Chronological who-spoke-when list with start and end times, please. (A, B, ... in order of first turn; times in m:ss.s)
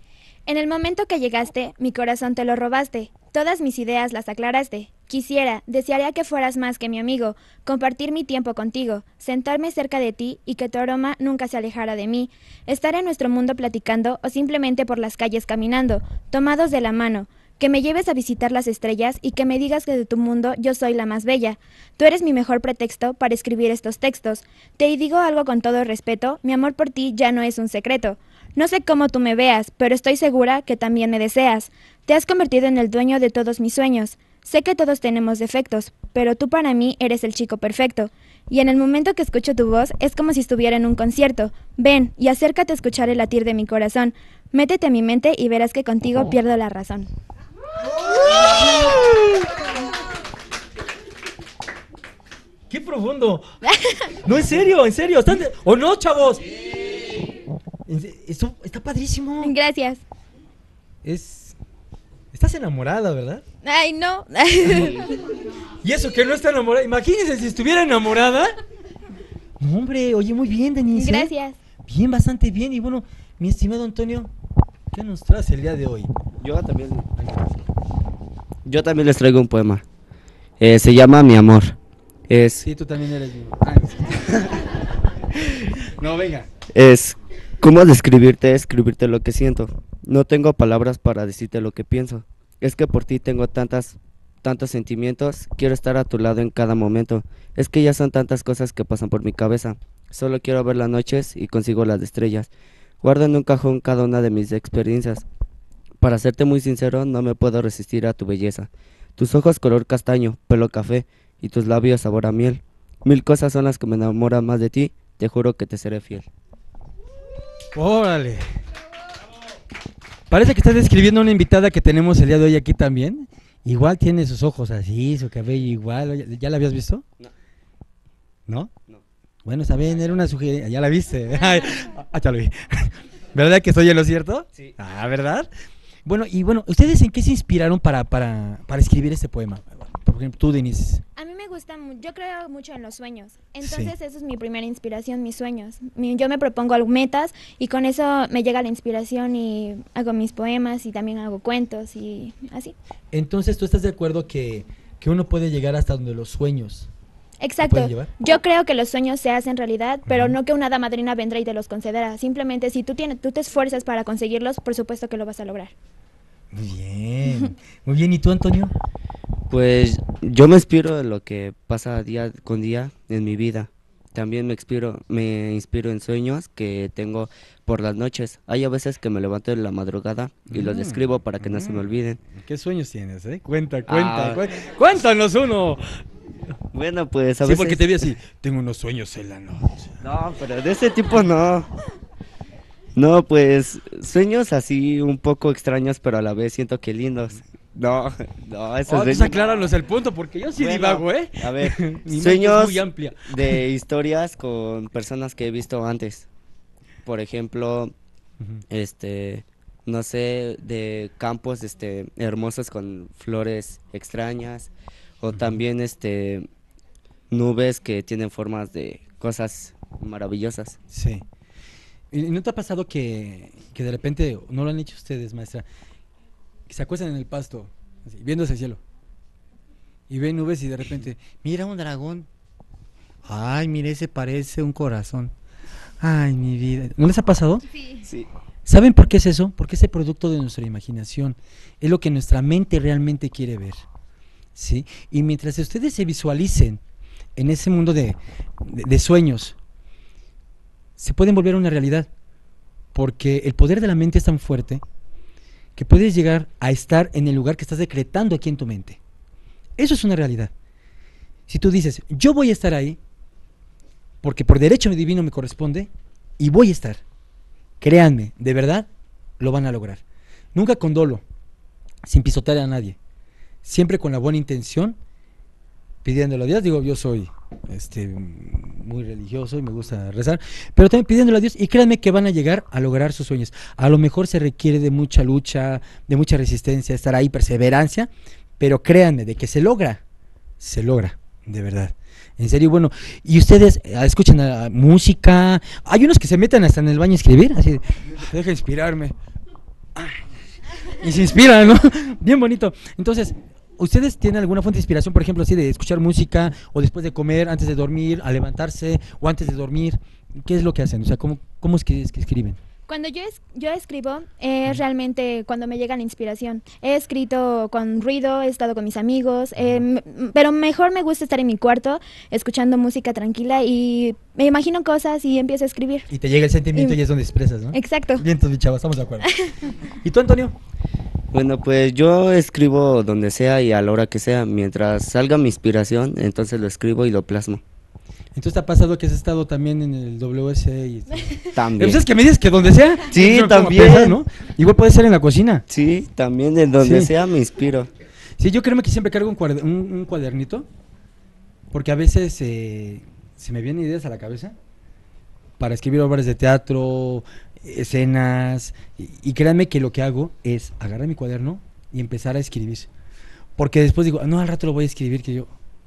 0:00.5-0:47.1 A
0:47.8-0:49.7 B
0:52.7-0:53.4 B
0:54.2-0:56.5 B
0:57.8-0:59.5 B
0:59.4-1:00.0 A
1:01.0-1:01.6 B
1:02.3-1:03.4 B
1:03.6-1:05.0 A
1:05.8-1:08.6 B
1:09.6-1:11.3 B
1:10.9-1:11.6 A
1:11.8-1:14.3 B
1:14.9-1:16.1 B
1:16.4-1:17.1 C
1:17.2-1:17.4 B
1:18.6-1:19.8 C
1:20.6-1:21.8 C
1:22.3-1:22.6 C
1:22.6-1:26.5 B
1:26.7-1:42.5 C
1:43.0-1:45.2 C
1:46.0-1:56.3 C
1:57.7-1:58.5 B
2:00.3-2:07.0 B
2:08.5-2:08.7 B
2:09.4-2:15.5 B
2:16.0-2:21.0 B
2:21.2-2:32.7 A
2:23.6-2:23.9 B
2:33.1-2:36.9 B
2:37.4-2:45.7 A
2:37.6-2:38.1 B
2:40.1-2:40.4 B
2:46.5-2:48.7 B
2:49.5-3:02.2 C
3:00.5-3:06.0 B
3:03.9-3:04.5 C
3:06.7-3:07.8 C
3:07.4-3:10.0 B
3:10.0-3:11.7 C
3:12.9-3:19.7 C
3:18.9-3:23.6 B
3:20.6-3:26.3 C
3:27.0-3:27.9 C
3:28.7-3:36.5 C
3:35.3-3:35.6 B
3:37.3-3:40.8 C
3:40.9-3:41.2 B
3:42.1-3:45.6 B
3:46.7-3:48.8 B
3:50.1-3:52.3 B
3:53.2-3:55.3 B
3:56.0-3:57.6 B
3:58.6-4:03.8 B
4:04.5-4:06.8 B
4:07.4-4:09.6 B
4:11.0-4:12.1 B
4:12.9-4:14.8 B
4:15.8-4:19.0 B
4:19.8-4:20.5 B
4:21.5-4:23.0 B
4:24.2-4:27.0 B
4:27.8-4:28.9 B
4:29.4-4:30.0 B
4:30.5-4:31.2 B
4:32.0-4:33.0 B
4:33.6-4:35.0 B
4:36.0-4:50.0 B
4:50.6-4:59.1 B
4:59.9-5:00.2 B
5:00.8-5:12.6 B
5:12.9-5:26.1 A
5:19.6-5:19.8 B
5:26.1-5:30.5 B
5:26.7-5:27.0 A
5:27.7-5:28.2 A
5:29.3-5:29.6 A
5:31.3-5:37.6 C
5:38.3-5:45.6 B
5:41.6-5:42.0 C
5:43.1-5:44.2 C
5:45.7-5:47.9 C
5:46.8-5:47.1 B
5:48.4-5:50.7 B
5:51.7-5:54.6 B
5:55.6-6:02.9 B
6:03.6-6:05.5 B